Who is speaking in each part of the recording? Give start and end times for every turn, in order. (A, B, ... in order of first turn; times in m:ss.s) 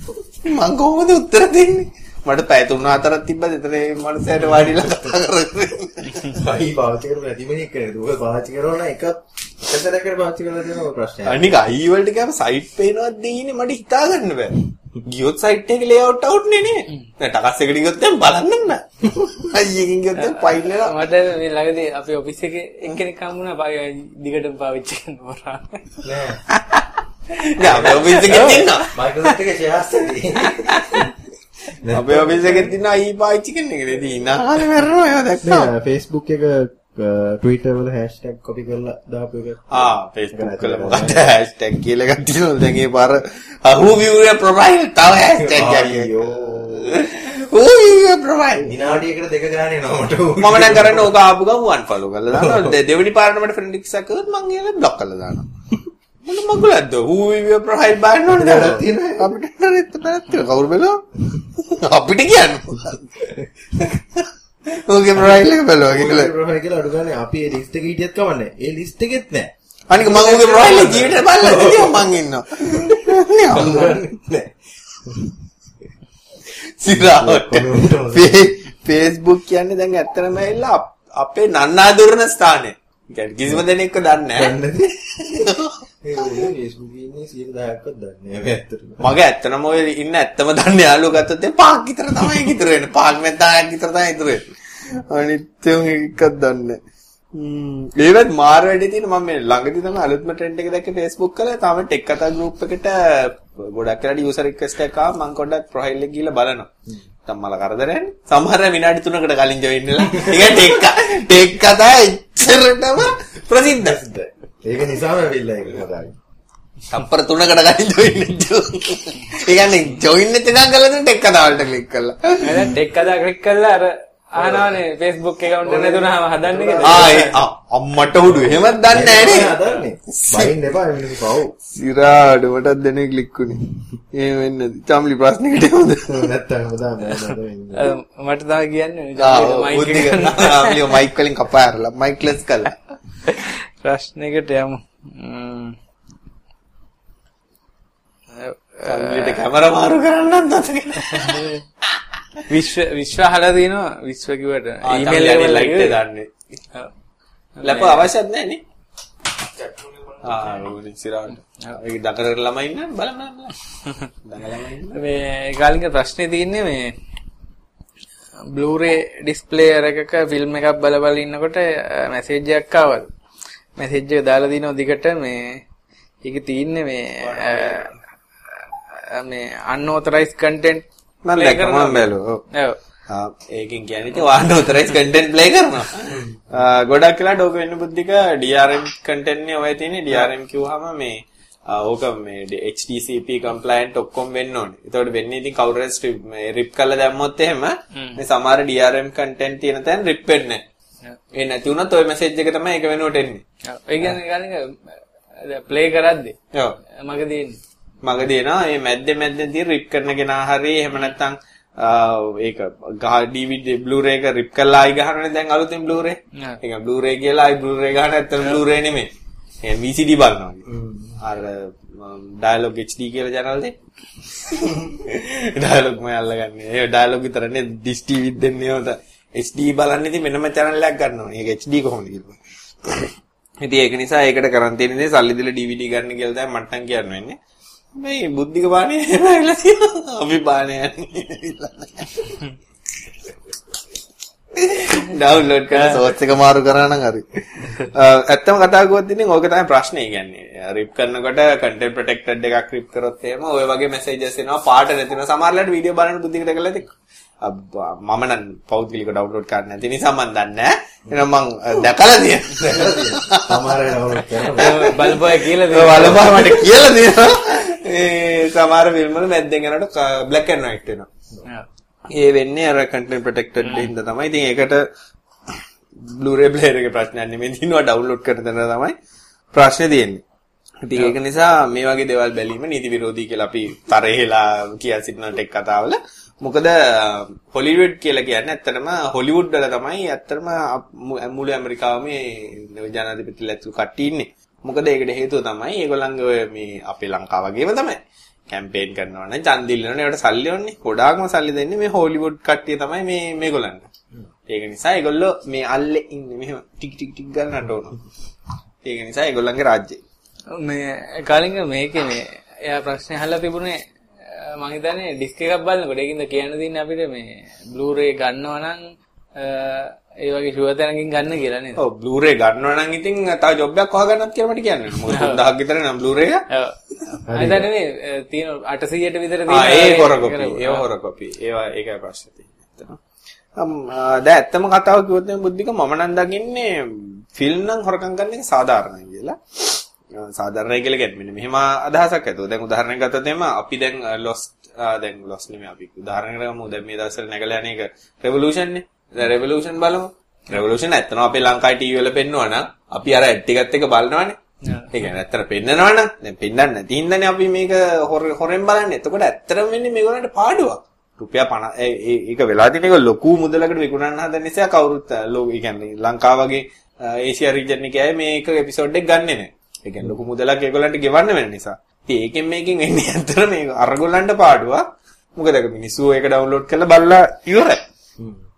0:00.4-0:06.4 A
0:06.3-0:11.6 B
0:11.3-0:21.0 A
0:20.2-0:25.9 C
0:26.0-0:26.4 B
0:26.5-0:26.9 A
0:27.5-0:29.4 A
0:27.6-0:31.1 B
0:28.1-0:28.7 C
0:30.4-0:31.1 A
0:31.8-0:32.8 B
0:31.9-0:35.7 A
0:35.4-0:41.3 B
0:39.7-0:48.8 A
0:45.4-0:47.1 B
0:48.6-0:51.1 B
0:50.4-0:55.5 A
0:52.3-0:52.8 B
0:56.3-1:03.2 A
0:58.3-0:59.3 B
1:03.2-1:04.0 B
1:03.8-1:06.3 A
1:05.8-1:12.2 B
1:09.9-1:14.0 A
1:12.7-1:14.5 B
1:15.1-1:15.4 B
1:16.5-1:24.6 A
1:16.9-1:18.6 B
1:24.3-1:29.1 B
1:25.1-1:26.5 A
1:29.0-1:36.8 A
1:37.3-1:46.7 A
1:47.3-1:54.0 A
1:50.3-1:50.6 B
1:53.7-1:56.2 B
1:56.9-2:02.7 A
2:02.4-2:07.4 C
2:04.4-2:04.8 B
2:05.6-2:07.3 B
2:06.8-2:10.5 A
2:08.3-2:11.5 B
2:11.7-2:16.3 A
2:16.1-2:17.9 B
2:17.7-2:21.0 C
2:19.2-2:22.8 A
2:23.2-2:25.8 C
2:28.4-2:29.5 C
2:28.9-2:32.0 A
2:31.0-2:31.6 C
2:32.5-2:36.0 C
2:34.8-2:36.3 A
2:37.6-2:38.1 C
2:37.6-2:38.6 A
2:39.6-2:43.6 A
2:44.2-2:45.0 A
2:44.9-2:46.9 C
2:48.5-2:53.1 C
2:53.8-2:55.6 C
2:56.2-2:57.9 C
2:57.2-2:58.0 A
2:58.9-3:00.9 C
3:01.2-3:02.4 A
3:01.4-3:02.8 C
3:03.1-3:20.6 A
3:06.2-3:06.5 B
3:17.9-3:18.2 C
3:21.3-3:23.4 A
3:23.7-3:26.4 C
3:27.0-3:27.6 C
3:28.0-3:39.1 A
3:39.6-3:57.4 A
3:40.7-3:41.2 B
3:58.0-4:02.4 A
4:04.6-4:31.1 A
4:05.7-4:06.0 C
4:22.6-4:25.2 B
4:24.6-4:26.5 C
4:25.9-4:26.6 B
4:32.1-4:34.8 A
4:33.6-4:33.9 C
4:35.5-4:39.0 A
4:39.5-4:40.2 A
4:40.8-5:03.9 A
5:04.5-5:08.0 A
5:08.8-5:10.0 A
5:10.5-5:18.8 C
5:19.4-5:21.8 C
5:21.8-5:26.5 A
5:25.0-5:25.4 C
5:26.5-5:30.8 C
5:27.3-5:27.7 B
5:29.5-5:33.0 A
5:33.6-5:54.4 A
5:54.6-5:55.1 C
5:54.9-6:17.8 A
6:18.2-6:18.4 B